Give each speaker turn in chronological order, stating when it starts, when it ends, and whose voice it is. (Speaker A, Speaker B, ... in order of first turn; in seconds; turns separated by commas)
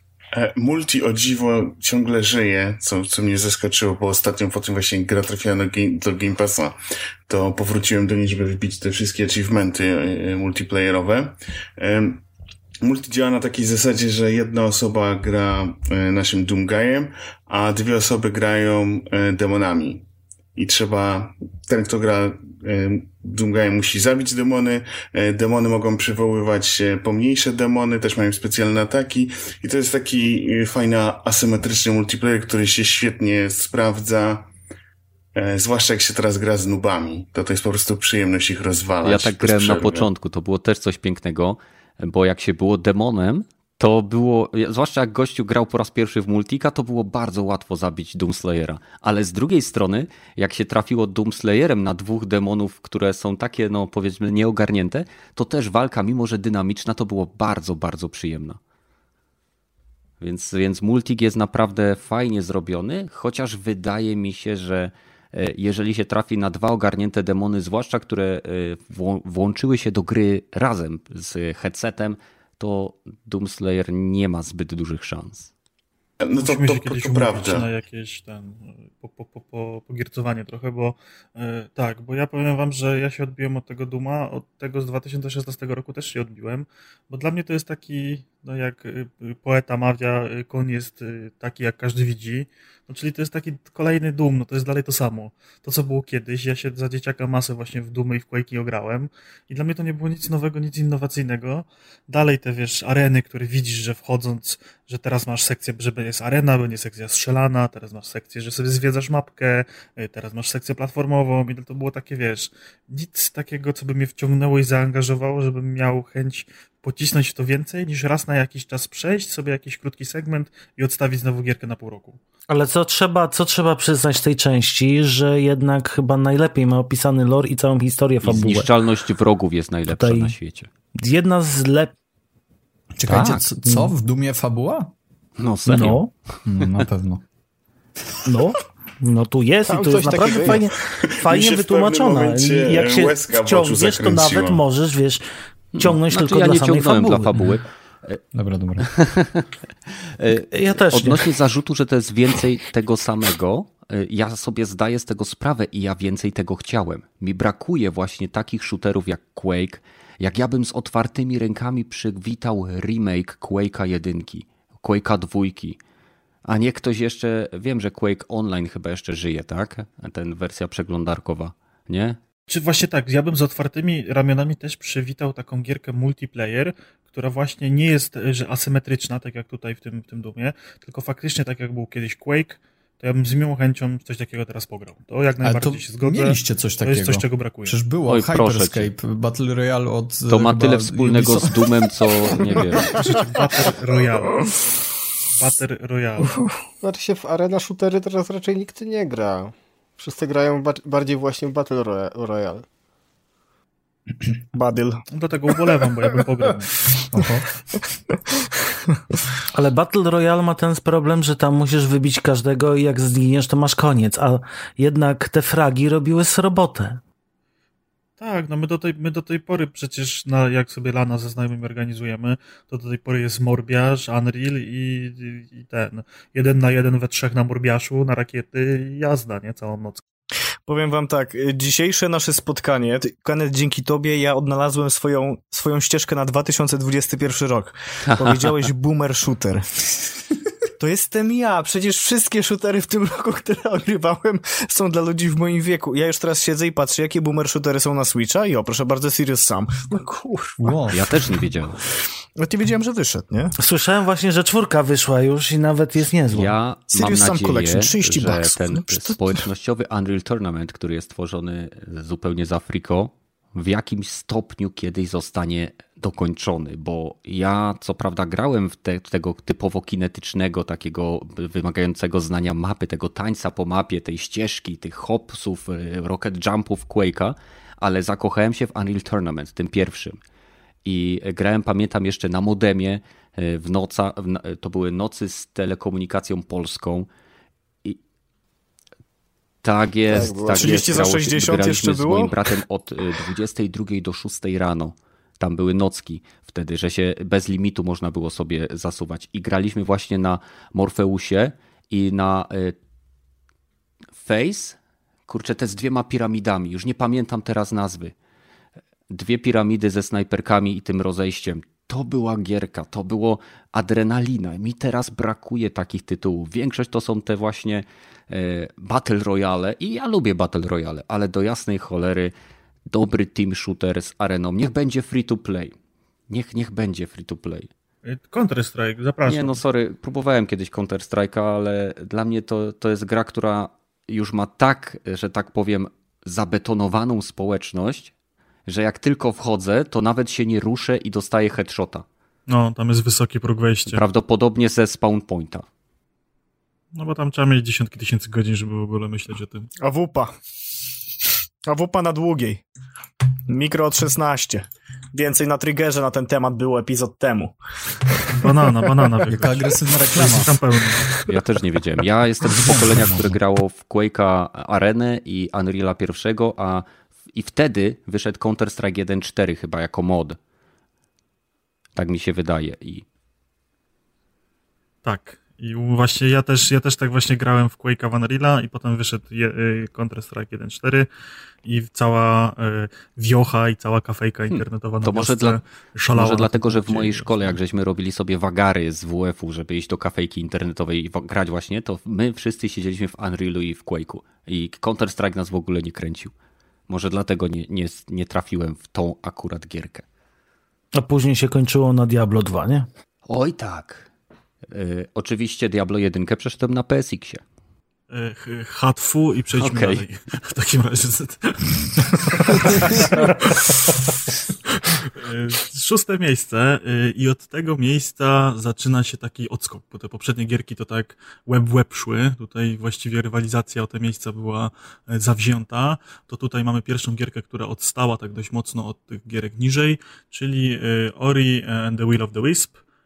Speaker A: 0.3-6.8, Speaker A: 7.3-12.2, Speaker A: 12.8-34.5, Speaker A: 35.3-40.1, Speaker B: 39.0-58.6, Speaker B: 60.2-75.5, Speaker A: 76.2-77.7, Speaker C: 76.4-122.2, Speaker D: 122.5-128.7, Speaker B: 128.2-130.7, Speaker D: 129.9-130.3, Speaker D: 130.9-131.9, Speaker E: 132.9-134.9, Speaker B: 133.1-133.4, Speaker D: 133.1-133.9, Speaker B: 135.4-136.0, Speaker D: 135.7-136.1, Speaker E: 136.4-137.2, Speaker D: 138.2-145.2, Speaker F: 139.7-140.7, Speaker A: 140.9-144.6, Speaker B: 145.7-148.2, Speaker D: 145.8-147.3, Speaker E: 148.3-148.9, Speaker B: 148.8-165.8, Speaker D: 150.5-151.3, Speaker B: 166.4-172.2, Speaker C: 172.5-187.8, Speaker E: 185.4-191.8, Speaker B: 188.1-188.9, Speaker B: 190.3-193.0, Speaker C: 192.9-194.7, Speaker C: 195.4-196.4, Speaker F: 196.8-202.6, Speaker G: 204.5-205.0, Speaker C: 205.1-206.8, Speaker E: 207.1-207.5, Speaker D: 209.5-217.0, Speaker C: 218.2-230.0, Speaker G: 230.7-239.6, Speaker B: 238.1-238.4, Speaker G: 240.8-250.8, Speaker E: 250.6-251.2, Speaker B: 250.9-251.8, Speaker G: 252.4-253.5, Speaker D: 253.6-256.5, Speaker B: 256.3-280.2, Speaker G: 256.9-259.4, Speaker B: 280.8-287.1, Speaker B: 289.6-302.8, Speaker F: 290.1-291.0, Speaker G: 290.2-292.3, Speaker B: 304.2-308.1, Speaker B: 309.1-322.3, Speaker B: 322.9-325.7, Speaker B: 326.3-327.7, Speaker C: 328.1-329.6, Speaker B: 329.3-338.1, Speaker B: 338.7-342.0, Speaker C: 342.5-344.0, Speaker B: 343.9-345.6, Speaker C: 346.9-349.7, Speaker G: 349.8-350.3, Speaker G: 351.6-352.6, Speaker G: 353.5-357.6, Speaker C: 358.3-361.2, Speaker E: 359.2-360.5, Speaker B: 361.2-370.4, Speaker E: 362.9-363.4, Speaker B: 371.9-373.0, Speaker C: 375.0-381.1, Speaker C: 381.6-387.6, Speaker B: 384.5-396.3, Speaker B: 396.9-400.0, Speaker D: 400.9-402.9, Speaker B: 403.3-404.1, Speaker B: 404.7-407.4, Speaker C: 408.1-432.8, Speaker B: 409.6-410.0